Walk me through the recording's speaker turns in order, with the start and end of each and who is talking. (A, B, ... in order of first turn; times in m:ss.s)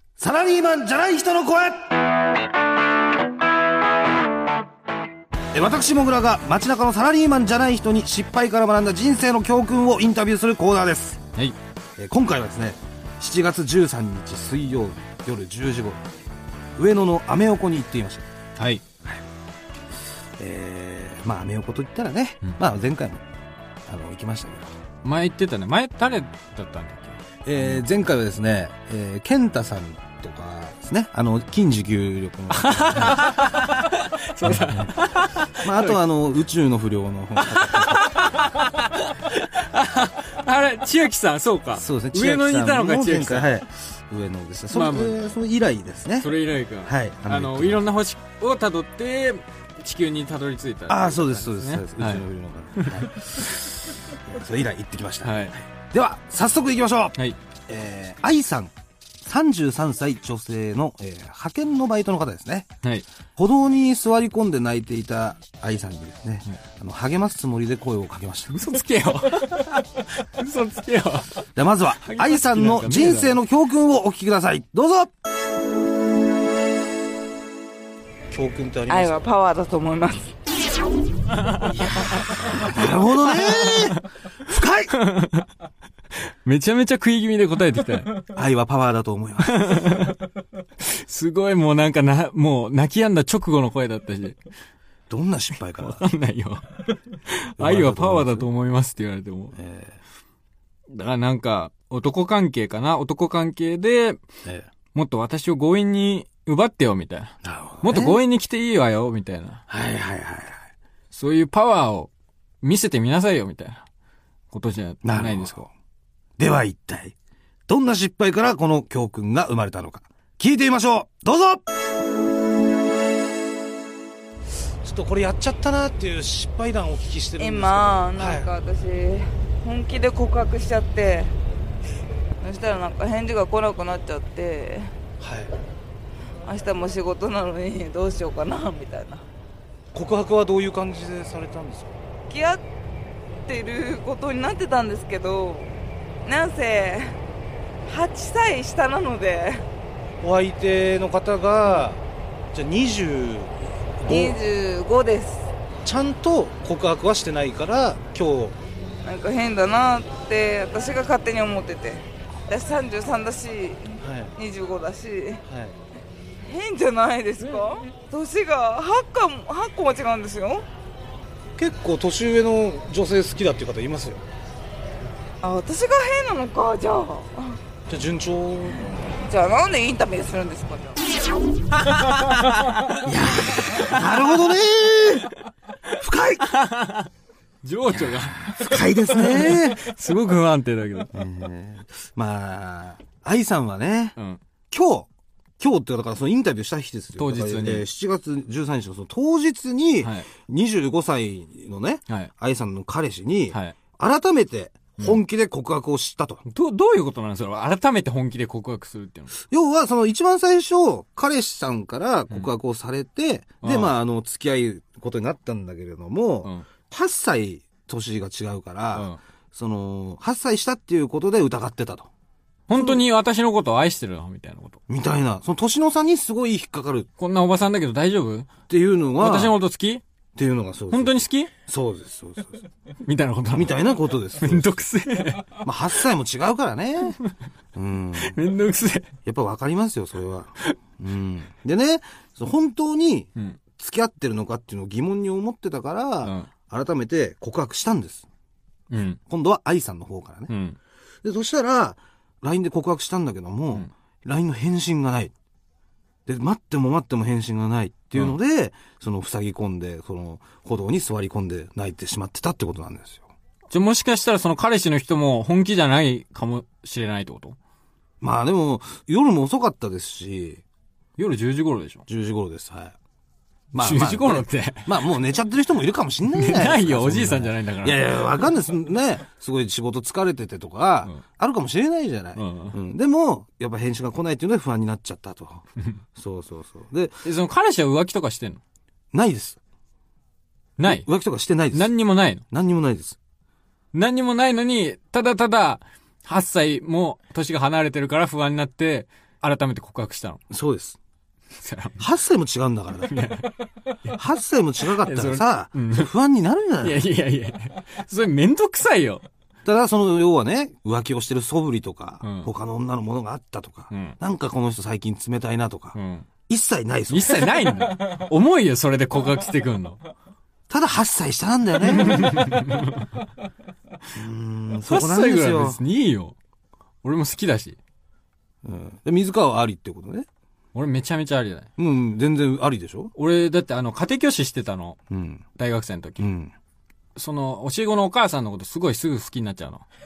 0:00.2-0:02.1 A
0:05.5-0:11.2 A
0:12.0-0:16.0 A
0:16.8-0:18.3 A
0:18.6-0:18.8 B
0:20.4-0:23.2 A
0:23.9-0:24.8 A
0:25.0-0:27.8 B
0:27.4-0:33.4 A
0:32.5-0:36.0 B
0:34.4-0:34.9 A
0:35.6-0:38.2 A
0:37.4-0:43.5 B
0:41.8-0:46.3 A
0:44.7-0:45.2 B
0:46.2-0:52.2 B
0:46.8-0:47.8 A
0:50.9-0:57.2 A
0:52.8-0:53.5 B
0:55.2-0:55.6 B
0:57.7-0:58.7 A
0:59.2-1:02.7 A
1:03.4-1:08.6 A
1:08.5-1:11.3 B
1:11.6-1:15.1 A
1:12.0-1:13.4 B
1:18.3-1:19.3 A
1:18.9-1:20.3 C
1:21.6-1:24.9 A
1:23.4-1:24.0 B
1:24.9-1:25.5 B
1:26.4-1:28.2 B
1:28.3-1:30.0 A
1:29.4-1:30.2 B
1:30.8-1:34.4 B
1:35.1-1:36.0 A
1:35.8-1:39.6 B
1:37.6-1:38.5 A
1:39.5-1:40.0 A
1:40.9-1:44.2 B
1:44.9-1:49.6 B
1:47.4-1:48.2 A
1:49.7-1:50.6 A
1:51.1-1:52.1 B
1:52.6-1:53.8 B
1:54.5-1:55.6 B
1:55.0-1:55.7 A
1:56.4-1:57.2 A
1:57.7-2:01.6 A
2:04.8-2:08.5 A
2:07.4-2:11.3 C
2:12.4-2:14.9 C
2:15.2-2:15.5 A
2:16.4-2:19.2 C
2:19.9-2:21.9 A
2:22.3-2:22.6 C
2:23.5-2:27.2 C
2:27.9-2:29.6 C
2:30.2-2:32.0 A
2:32.5-2:34.4 A
2:34.0-2:35.5 C
2:35.8-2:38.6 A
2:39.0-2:45.4 C
2:44.0-2:44.3 A
2:45.4-2:45.7 A
2:46.4-2:50.6 C
2:51.6-2:54.2 A
2:55.4-2:57.6 C
2:57.9-2:59.0 A
2:59.2-3:01.2 C
3:02.1-3:03.0 B
3:03.0-3:05.3 A
3:03.7-3:04.0 B
3:05.9-3:06.5 A
3:06.4-3:07.1 B
3:07.6-3:11.1 B
3:07.9-3:09.8 A
3:11.1-3:14.2 A
3:14.7-3:26.4 A
3:17.2-3:17.8 B
3:20.0-3:20.3 B
3:23.5-3:23.8 B
3:26.4-3:29.3 B
3:29.5-3:42.1 A
3:33.6-3:33.9 B
3:42.7-3:44.8 B
3:42.7-3:43.0 A
3:44.9-3:47.1 A
3:47.2-3:48.5 B
3:48.7-3:49.6 A
3:49.2-3:50.0 B
3:50.4-3:51.1 A
3:50.9-3:51.5 B
3:51.7-3:52.6 A
3:53.0-3:53.7 B
3:53.5-3:54.8 A
3:54.4-3:55.6 B
3:55.6-3:57.2 A
3:57.7-3:58.4 A
3:58.2-3:59.1 B
3:59.2-4:08.2 A
4:06.2-4:06.5 B
4:08.9-4:09.2 B
4:09.3-4:10.5 A
4:10.5-4:10.8 B
4:11.2-4:15.3 A
4:16.2-4:23.2 A
4:23.7-4:27.6 B
4:28.2-4:30.6 A
4:31.2-4:32.1 B
4:32.1-4:32.9 A
4:33.7-4:35.0 B
4:33.7-4:47.2 A
4:36.3-4:38.2 B
4:42.4-4:42.8 B
4:47.2-4:48.6 B
4:49.1-4:49.6 A
4:50.8-4:51.0 B
4:50.8-4:51.9 A
4:51.7-4:52.4 B
4:52.5-4:53.2 A
4:53.9-5:00.4 B
5:00.5-5:01.0 A
5:01.6-5:02.0 B
5:02.0-5:03.2 A
5:03.1-5:04.2 B
5:04.1-5:07.0 A
5:05.0-5:06.1 B
5:06.8-5:09.2 B
5:09.6-5:17.8 A
5:12.2-5:12.5 B
5:13.9-5:14.2 B
5:15.9-5:16.3 B
5:17.1-5:20.0 B
5:20.7-5:22.6 A
5:21.8-5:23.1 B
5:24.1-5:25.8 A
5:24.9-5:26.3 B
5:27.0-5:27.8 B
5:28.6-5:30.3 A
5:30.7-5:31.7 B
5:31.8-5:33.1 A
5:33.1-5:35.0 B
5:35.1-5:35.4 A
5:35.6-5:36.3 B
5:36.2-5:36.5 A
5:37.2-5:39.8 B